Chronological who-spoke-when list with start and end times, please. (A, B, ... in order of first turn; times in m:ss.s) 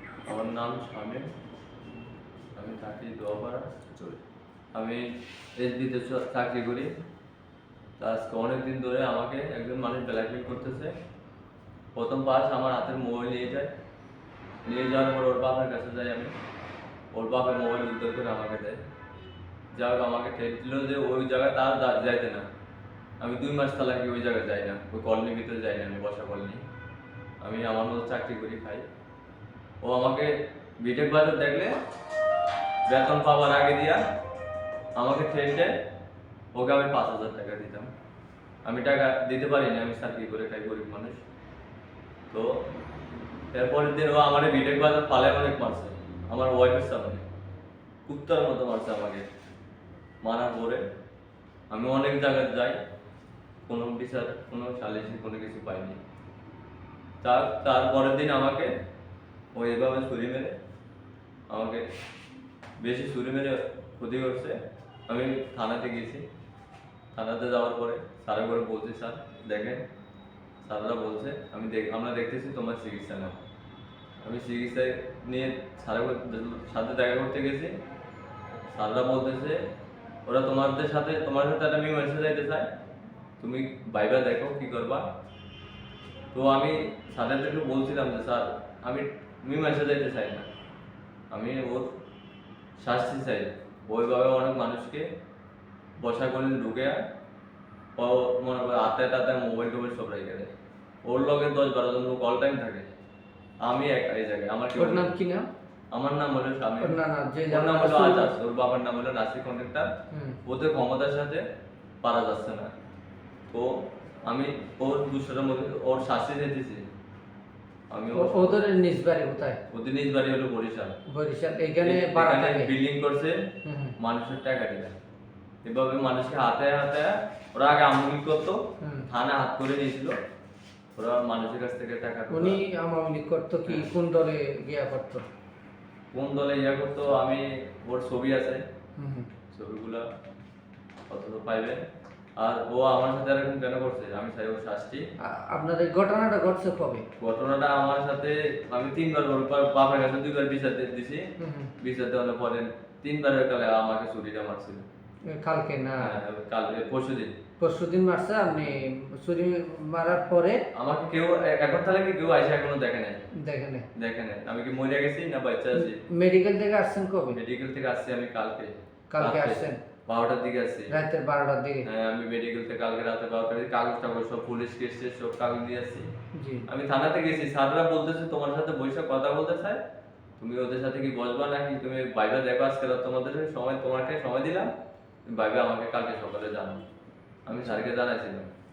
0:00.2-0:01.3 A
0:02.5-0:03.7 A
0:04.7-0:06.9 A
0:08.0-0:10.9 A
0:11.9-0:13.7 A
0:14.6-0:16.3 A
0:17.1-0:18.8 A
0:19.7-0:22.4 A
0:23.2-0:26.7 A
0:27.4-0:28.8 A
0:29.8-0:31.8 A
0:32.8-0:34.0 A
0:35.0-0:35.7 A
0:36.5-0:37.9 A
0:38.6-0:41.2 A
0:42.3-0:42.6 A
0:43.5-0:47.2 A
0:48.1-0:49.2 A
0:50.2-0:50.8 A
0:51.7-0:52.8 A
0:53.6-0:56.0 A
0:57.2-0:58.7 A
0:59.5-1:00.6 A
1:01.5-1:01.8 A
1:02.8-1:04.6 A
1:05.1-1:06.2 A
1:07.1-1:09.8 A
1:10.6-1:13.4 A
1:14.2-1:17.8 A
1:18.7-1:19.6 A
1:20.2-1:22.7 A
1:23.4-1:25.0 A
1:26.3-1:30.5 A
1:31.3-1:31.9 A
1:32.8-1:35.0 A
1:36.0-1:37.0 A
1:38.0-1:40.5 A
1:41.0-1:42.9 A
1:43.6-1:45.1 A
1:44.7-1:45.5 B
1:45.9-1:47.0 A
1:46.8-1:48.3 B
1:47.5-1:49.9 A
1:50.1-1:50.4 B
1:50.4-1:51.4 A
1:52.0-1:52.7 A
1:53.5-1:56.8 A
1:57.9-1:58.6 A
1:58.1-1:59.6 B
1:59.7-2:01.0 A
2:01.1-2:02.7 B
2:01.8-2:03.4 A
2:03.6-2:04.0 B
2:04.0-2:04.9 A
2:05.6-2:10.2 A
2:08.8-2:09.1 B
2:11.0-2:12.6 A
2:12.3-2:15.2 B
2:16.1-2:18.6 A
2:19.0-2:19.3 B
2:19.5-2:20.0 A
2:21.1-2:21.8 A
2:22.4-2:25.0 A
2:25.2-2:27.0 B
2:27.2-2:34.8 A
2:31.4-2:31.7 B
2:35.3-2:36.2 B
2:36.0-2:37.4 A
2:37.6-2:40.6 B
2:40.7-2:43.2 A
2:43.3-2:43.9 B
2:43.9-2:46.0 A
2:45.7-2:47.4 B
2:47.3-2:50.9 A
2:49.1-2:49.8 B
2:50.9-2:51.8 B
2:51.8-2:56.1 A
2:56.3-2:56.7 B
2:56.7-2:59.8 A
3:00.4-3:04.7 A
3:05.2-3:06.8 A
3:07.5-3:08.5 A
3:07.5-3:07.8 B